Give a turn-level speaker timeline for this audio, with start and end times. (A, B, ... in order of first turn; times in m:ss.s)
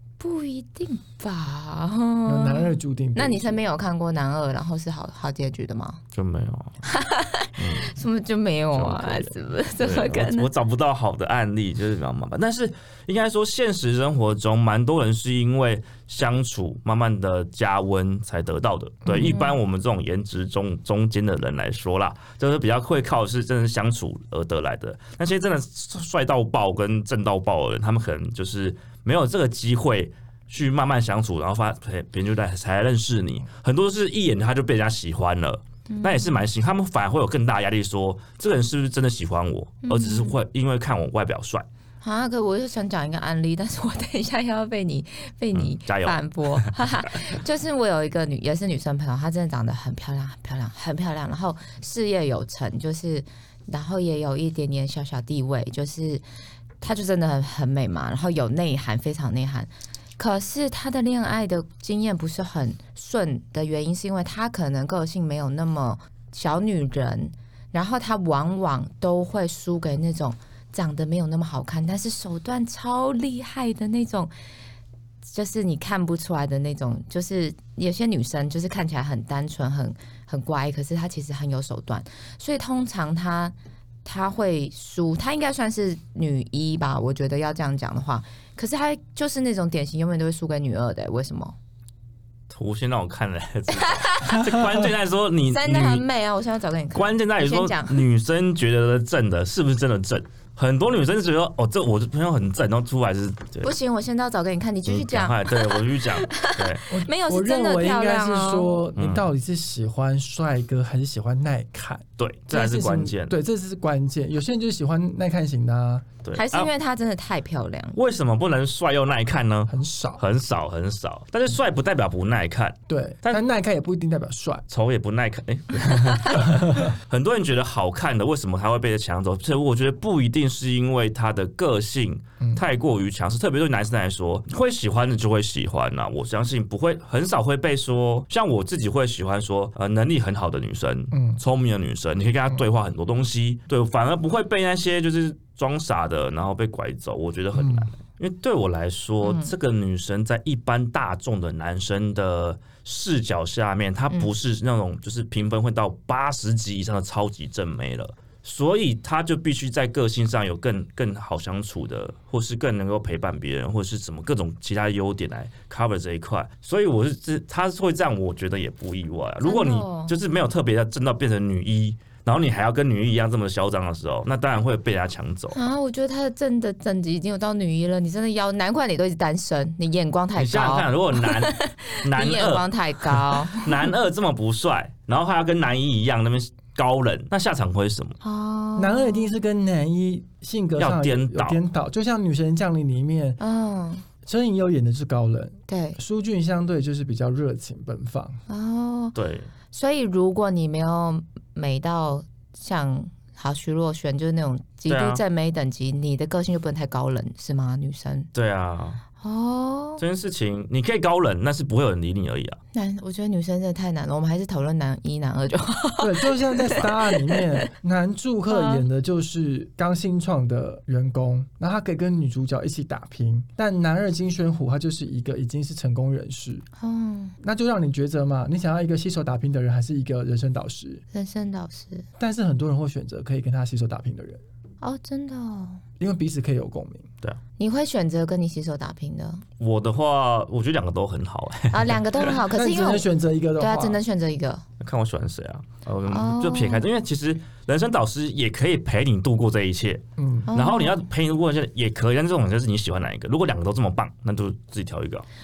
0:00.2-0:06.0 A
0:02.3-0:03.6 B
0:06.1-0:06.8 C
0:06.8-0:10.5 A
0:07.6-0:08.0 C
0:08.7-0:41.7 C
0:19.0-0:19.4 B
0:19.1-0:19.6 A
0:35.9-0:36.4 A
0:39.8-0:40.4 A
0:42.0-0:56.2 A
0:45.5-0:46.7 C
0:56.8-1:14.3 A
1:15.2-1:31.5 A
1:32.5-1:36.0 C
1:33.7-1:34.6 A
1:35.5-1:38.0 A
1:36.9-1:43.7 C
1:43.6-1:48.8 A
1:44.9-1:46.8 C
1:46.9-1:56.1 B
1:49.0-1:49.2 C
1:52.2-1:53.3 C
1:56.2-1:56.7 C
1:56.3-1:58.0 A
1:57.9-2:03.4 C
1:59.7-2:00.2 B
2:02.9-2:04.6 B
2:04.7-2:55.6 C
2:06.6-2:06.9 B
2:21.1-2:21.4 B
2:27.5-2:27.9 B
2:29.2-2:29.5 A
2:49.4-2:50.2 A
2:55.5-3:03.9 A
3:00.4-3:08.2 C
3:08.2-3:09.3 A
3:08.8-3:13.4 B
3:10.8-3:11.6 C
3:13.4-3:14.0 A
3:14.2-3:18.4 B
3:15.7-3:16.0 A
3:18.5-3:19.1 A
3:19.1-3:19.5 C
3:19.7-3:28.3 A
3:24.9-3:25.2 C
3:28.3-3:29.0 C
3:29.2-3:30.0 A
3:30.0-3:32.6 C
3:32.7-3:37.6 A
3:36.0-3:46.6 B
3:38.5-3:38.8 A
3:46.8-3:47.4 A
3:47.4-3:51.0 B
3:51.1-3:52.0 A
3:52.2-3:54.4 B
3:54.8-3:55.8 A
3:56.0-3:57.1 B
3:57.6-3:59.4 A
3:59.6-4:02.4 C
4:01.7-4:03.0 A
4:02.5-4:04.0 B
4:03.6-4:04.6 A
4:04.8-4:15.2 C
4:06.1-4:06.9 A
4:10.2-4:10.5 B
4:10.5-4:11.0 A